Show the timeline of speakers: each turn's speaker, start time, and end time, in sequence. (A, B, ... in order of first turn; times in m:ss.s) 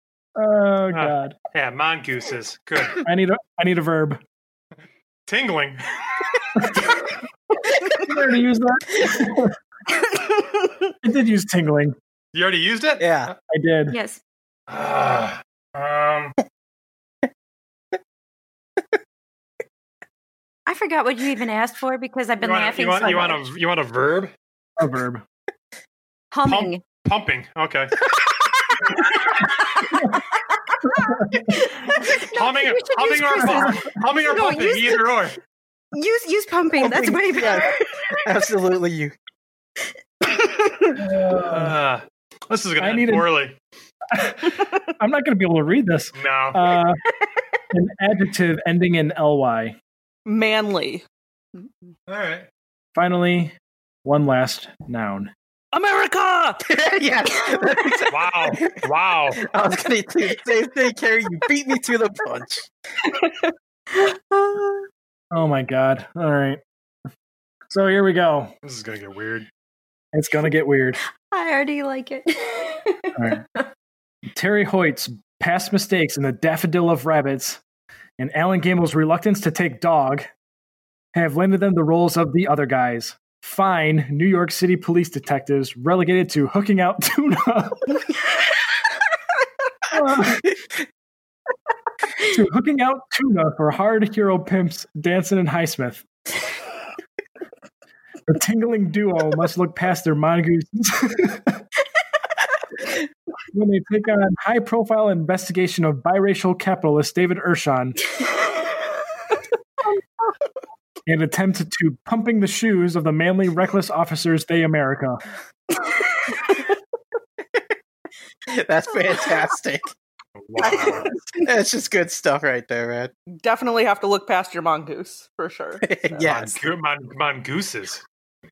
0:00.4-0:01.3 A
0:00.9-0:03.0 B
0:03.0-0:04.2 A
0:05.3-0:06.0 B
0:06.6-0:06.8 A
0:07.9-0:09.5 A
0:11.0-0:12.0 A
0:12.3-0:13.3 B
0:13.0-0:13.3 C
0:13.5-0:14.0 A
0:13.9-0:14.2 D
0:14.7-0:16.3 B
0:20.6-0:23.4 D
0:22.4-0:24.3 B
0:24.8-0:25.2 A
0:26.3-0:26.8 D
0:26.4-0:28.0 B
0:28.7-0:35.0 D
0:31.9-0:35.4 B
0:33.4-0:33.8 A
0:35.9-0:38.1 D
0:36.8-0:39.1 C
0:41.0-0:41.7 A
0:41.4-0:43.6 B
0:42.8-0:43.3 A
0:44.1-0:47.0 A
0:46.1-0:46.7 B
0:47.7-0:49.8 A
0:50.2-0:51.0 E
0:52.1-0:52.5 B
0:52.9-0:55.3 A
0:55.7-0:56.6 E
0:56.6-0:58.8 C
0:58.1-0:59.4 B
0:59.4-1:02.7 C
1:04.0-1:04.8 D
1:05.3-1:06.6 A
1:07.7-1:08.5 A
1:08.6-1:09.5 B
1:10.1-1:11.0 A
1:11.3-1:13.6 D
1:13.2-1:13.4 A
1:14.3-1:17.6 A
1:18.2-1:20.3 A
1:21.1-1:28.0 A
1:29.9-1:30.5 A
1:32.2-1:36.0 A
1:38.3-1:41.6 A
1:43.5-1:48.0 A
1:51.0-1:55.2 A
1:58.5-1:59.9 C
2:00.4-2:01.1 B
2:00.6-2:01.4 E
2:01.4-2:03.1 C
2:03.4-2:06.2 E
2:05.8-2:06.6 C
2:06.2-2:08.0 B